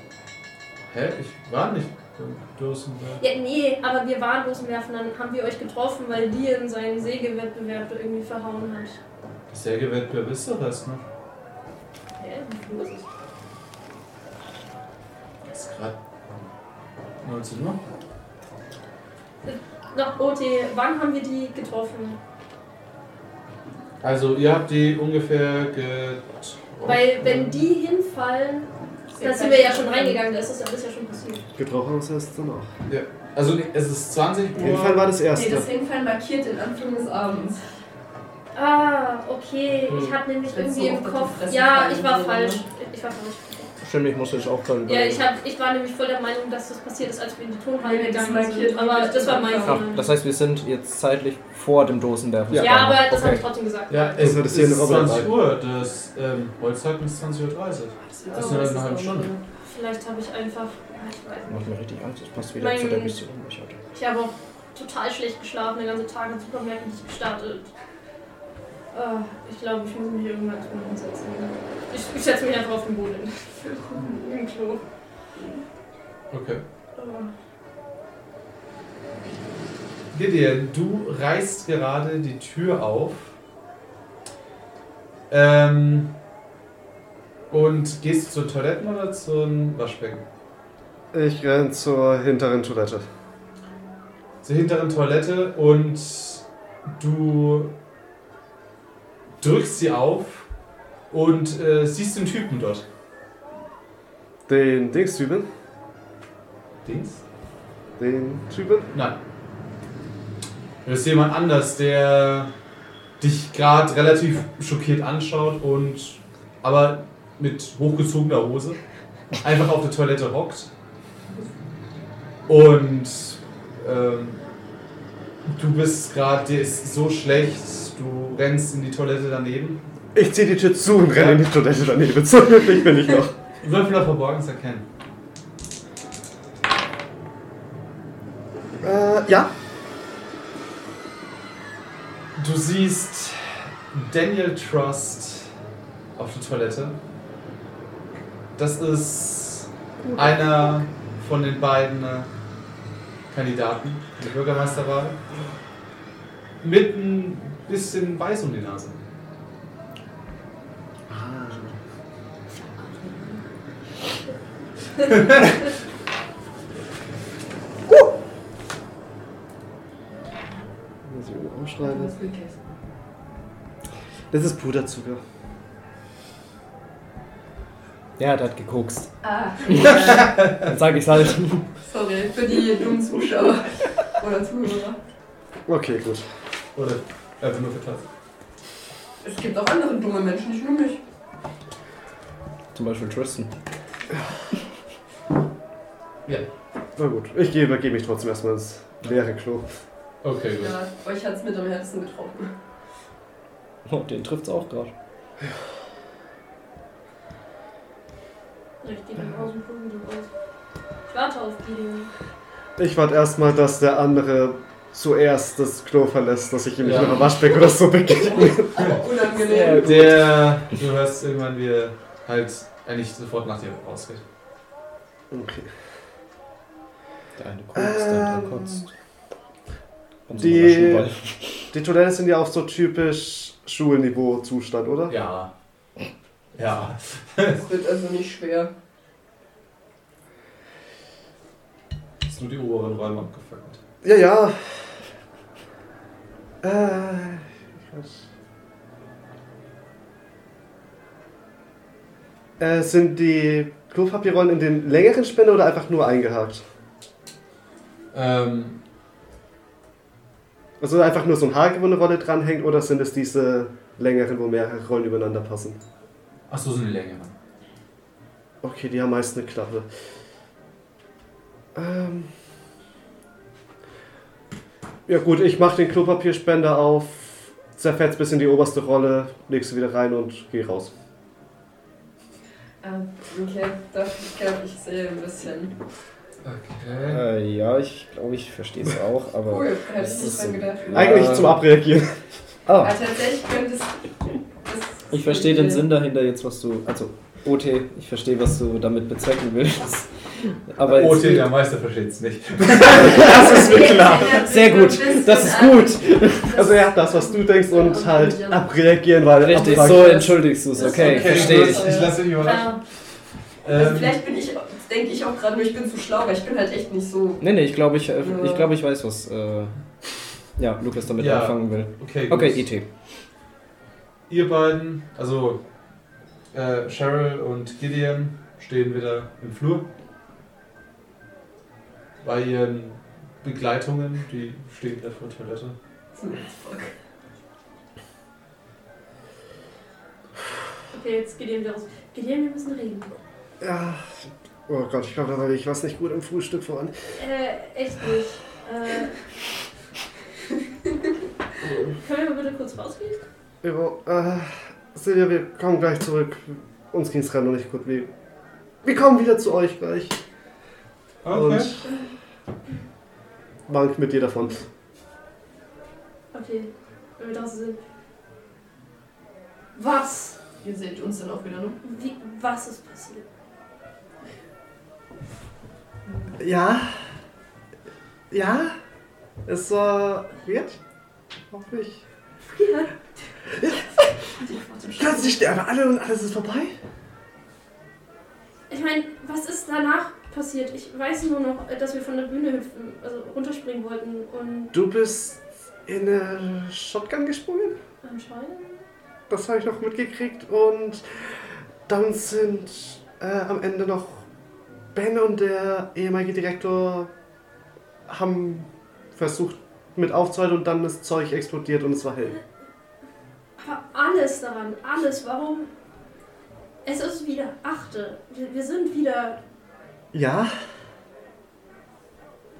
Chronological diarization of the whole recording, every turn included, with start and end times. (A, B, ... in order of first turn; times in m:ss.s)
0:00.9-0:03.2 A
0:03.2-0:09.0 B
0:09.5-0:11.0 A
0:12.2-0:13.0 B
0:15.5-0:16.0 A
0:17.2-0:17.8 A
0:19.4-0:22.2 B
0:24.0-0:27.6 A
0:26.8-0:31.4 B
0:29.1-0:30.2 C
0:31.6-0:32.7 D
0:32.9-0:35.1 A
0:34.6-0:35.7 D
0:35.3-0:37.6 C
0:38.5-0:43.7 B
0:39.9-0:40.2 E
0:40.5-0:42.6 C
0:43.8-0:45.2 E
0:44.8-0:50.1 B
0:47.8-0:49.8 C
0:49.6-0:53.4 E
0:52.5-0:54.2 B
0:53.9-0:59.3 A
0:54.2-0:55.3 D
0:58.1-0:59.4 C
0:58.3-0:58.9 B
0:59.6-1:01.7 B
1:01.5-1:03.8 E
1:02.5-1:03.2 B
1:03.9-1:07.7 B
1:08.9-1:14.8 B
1:16.3-1:16.6 A
1:17.0-1:17.3 B
1:20.1-1:23.3 A
1:25.3-1:26.1 A
1:27.5-1:30.2 A
1:31.1-1:33.0 D
1:34.4-1:36.4 A
1:37.0-1:37.7 A
1:39.4-1:40.5 A
1:41.1-1:42.8 A
1:44.5-1:45.5 D
1:46.8-1:47.2 A
1:48.0-1:48.9 D
1:50.8-1:52.5 A
1:53.2-1:58.8 A
1:59.4-2:00.7 A
2:02.5-2:04.4 A
2:05.4-2:09.8 A
2:10.1-2:13.3 D
2:11.1-2:11.4 A
2:13.6-2:14.8 A
2:18.8-2:19.5 D
2:22.4-2:25.5 A
2:26.2-2:27.0 A
2:28.6-2:32.3 A
2:30.0-2:30.8 B
2:33.3-2:35.2 A
2:36.6-2:39.0 A
2:41.1-2:41.7 D
2:42.9-2:43.4 B
2:51.1-2:52.1 D
2:51.8-2:52.6 C
2:54.3-2:55.2 D
2:58.2-2:59.1 E
2:59.2-3:00.3 C
2:59.6-3:01.7 E
3:00.0-3:00.7 A
3:01.8-3:05.0 C
3:05.7-3:06.2 D
3:06.8-3:08.0 A
3:09.2-3:11.0 C
3:12.7-3:13.5 E
3:17.0-3:19.6 D
3:20.2-3:20.7 A
3:20.6-3:22.5 C
3:23.8-3:24.9 E
3:28.8-3:30.3 B
3:31.1-3:32.1 B
3:32.8-3:38.9 D
3:36.8-3:37.3 A
3:38.3-3:39.9 C
3:39.4-3:40.3 E
3:39.6-3:44.2 A
3:45.3-3:45.7 D
3:47.4-3:48.9 E
3:47.7-3:48.9 D
3:50.3-3:51.6 E
3:50.4-3:51.1 D
3:51.7-3:55.1 D
3:55.1-3:55.5 A
3:56.5-3:57.6 A
3:57.6-3:58.7 C
4:02.2-4:03.8 A
4:04.0-4:04.8 D
4:06.6-4:08.2 D
4:12.6-4:16.6 D
4:18.1-4:18.8 A
4:20.8-4:25.8 D
4:26.5-4:27.3 A
4:28.6-4:29.9 D
4:31.7-4:32.3 D
4:35.1-4:40.9 D
4:42.8-4:45.7 C
4:46.4-4:47.2 A
4:47.1-4:51.6 E
4:49.4-4:51.1 C
4:50.9-4:52.1 D
4:52.6-4:52.9 E
4:52.8-4:53.9 C
4:54.6-4:55.8 C
4:55.1-5:00.1 E
5:00.6-5:01.5 E
5:00.8-5:04.5 A
5:03.0-5:03.6 E
5:03.5-5:08.6 C
5:04.2-5:06.6 E
5:06.5-5:10.4 D
5:09.4-5:12.0 E
5:09.5-5:12.2 C
5:10.8-5:12.8 A
5:12.4-5:12.8 B
5:13.6-5:14.2 A
5:13.7-5:17.4 C
5:17.4-5:19.7 E
5:18.2-5:18.7 C
5:20.6-5:22.8 E
5:21.2-5:22.7 A
5:24.3-5:25.6 A
5:26.5-5:29.8 A
5:32.2-5:35.7 A
5:36.1-5:36.9 C
5:40.9-5:43.1 B
5:43.6-5:46.9 D
5:47.2-5:49.2 B
5:51.9-5:53.2 B
5:53.6-5:58.1 D
5:58.8-6:00.2 D
6:01.2-6:01.7 A
6:01.3-6:02.0 D
6:03.7-6:04.7 D
6:06.3-6:07.8 B
6:09.7-6:10.4 B
6:10.6-6:11.8 C
6:11.8-6:13.2 B
6:16.4-6:16.9 D
6:18.3-6:18.7 D
6:19.4-6:20.8 D
6:21.5-6:22.0 D
6:22.5-6:22.9 B
6:24.4-6:25.4 C
6:25.0-6:26.7 D
6:28.7-6:34.7 B
6:34.7-6:37.8 D
6:38.0-6:38.8 B
6:39.3-6:44.2 D
6:44.9-6:47.1 D
6:48.1-6:52.4 D
6:53.6-6:55.7 B
6:56.8-6:59.4 B
7:00.1-7:00.5 D